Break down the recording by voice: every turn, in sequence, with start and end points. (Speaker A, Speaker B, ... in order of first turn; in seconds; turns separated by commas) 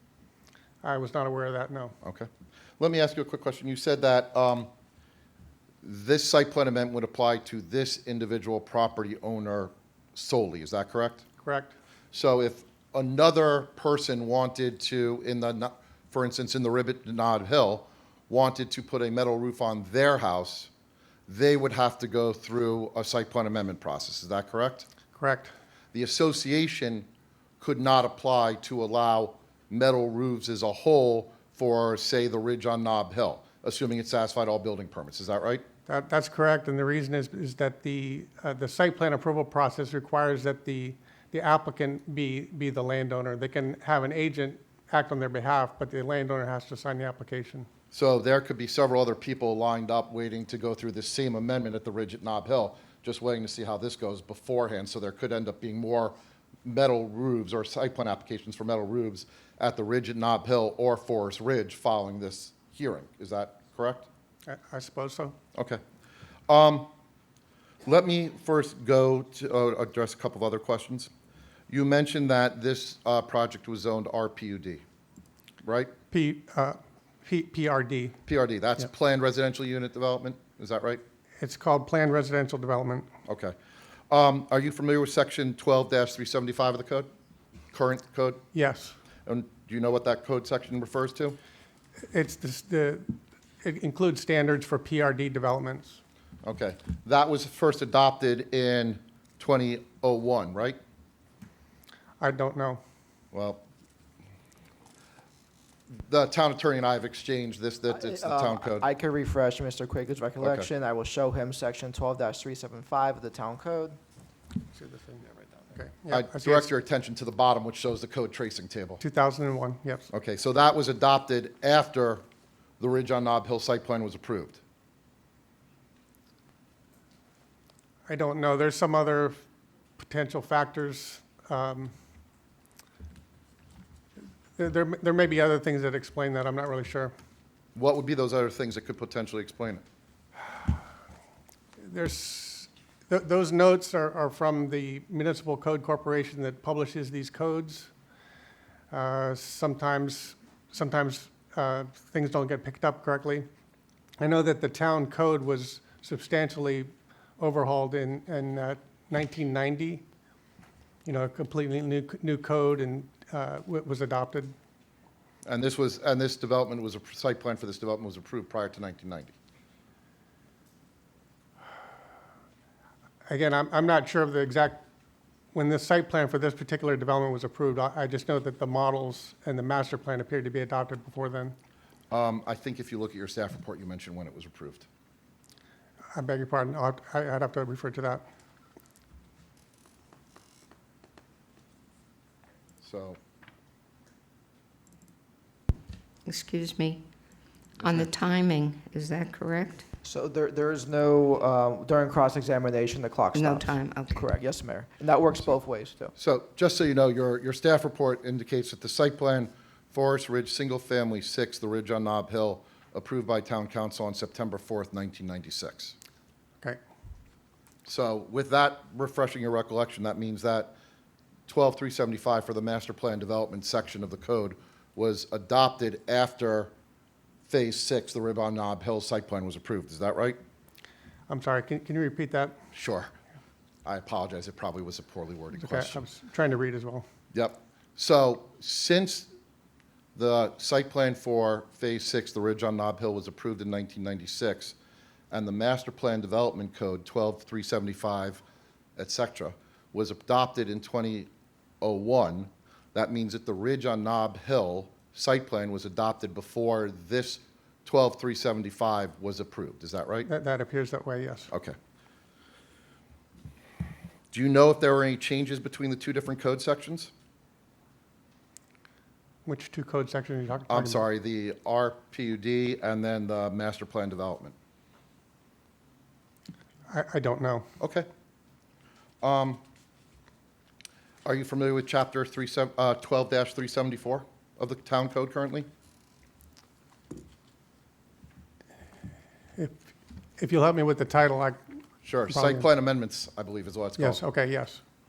Speaker A: 0.8-1.9, Speaker B: 2.0-4.7, Speaker B: 5.8-11.2, Speaker A: 11.4-11.7, Speaker B: 12.1-20.7, Speaker B: 21.3-24.9, Speaker A: 25.1-25.5, Speaker B: 25.9-27.1, Speaker B: 27.6-35.6, Speaker A: 35.9-47.7, Speaker B: 47.9-64.1, Speaker A: 64.5-65.3, Speaker B: 65.5-65.8, Speaker B: 66.5-66.9, Speaker B: 67.8-71.1, Speaker B: 71.7-74.8, Speaker B: 75.6-75.9, Speaker A: 76.1-78.2, Speaker B: 78.3-81.0, Speaker A: 81.4-83.1, Speaker B: 83.3-83.5, Speaker B: 84.1-87.1, Speaker B: 87.7-88.4, Speaker A: 88.5-89.0, Speaker B: 89.2-91.4, Speaker A: 92.1-93.1, Speaker A: 93.6-96.0, Speaker B: 96.4-100.8, Speaker A: 102.2-102.8, Speaker B: 103.3-103.6, Speaker B: 106.0-108.9, Speaker C: 107.9-114.0, Speaker B: 110.4-110.7, Speaker A: 114.7-116.7, Speaker B: 116.1-119.0, Speaker A: 119.0-120.1, Speaker B: 120.1-122.2, Speaker B: 122.8-124.6, Speaker A: 128.1-129.4, Speaker A: 130.0-131.9, Speaker A: 134.6-137.1, Speaker B: 137.7-139.8, Speaker A: 141.8-147.9, Speaker A: 148.9-153.4, Speaker A: 154.2-160.0, Speaker A: 161.0-164.5, Speaker B: 165.4-169.3, Speaker A: 173.3-174.8, Speaker A: 175.5-181.5, Speaker B: 182.1-184.9, Speaker A: 186.1-188.2, Speaker B: 192.8-193.2, Speaker D: 196.2-197.0, Speaker D: 197.8-199.8, Speaker C: 200.0-206.1, Speaker D: 203.3-204.2, Speaker B: 206.2-215.9, Speaker B: 217.8-220.7, Speaker B: 221.5-226.7, Speaker B: 227.5-230.4, Speaker A: 231.3-232.6, Speaker B: 232.7-233.1, Speaker B: 233.8-236.0, Speaker A: 235.6-237.0, Speaker B: 237.3-239.3, Speaker B: 240.1-244.7, Speaker B: 245.3-248.4, Speaker B: 249.0-251.3, Speaker B: 251.8-260.3, Speaker A: 260.3-261.5, Speaker B: 261.5-261.8, Speaker B: 264.3-267.1, Speaker A: 269.4-271.0, Speaker B: 270.7-274.5, Speaker A: 276.9-277.7, Speaker B: 277.8-278.1, Speaker B: 279.2-279.6, Speaker B: 281.2-285.7, Speaker A: 290.4-291.6, Speaker B: 292.0-294.2, Speaker A: 292.3-292.7, Speaker A: 294.0-294.8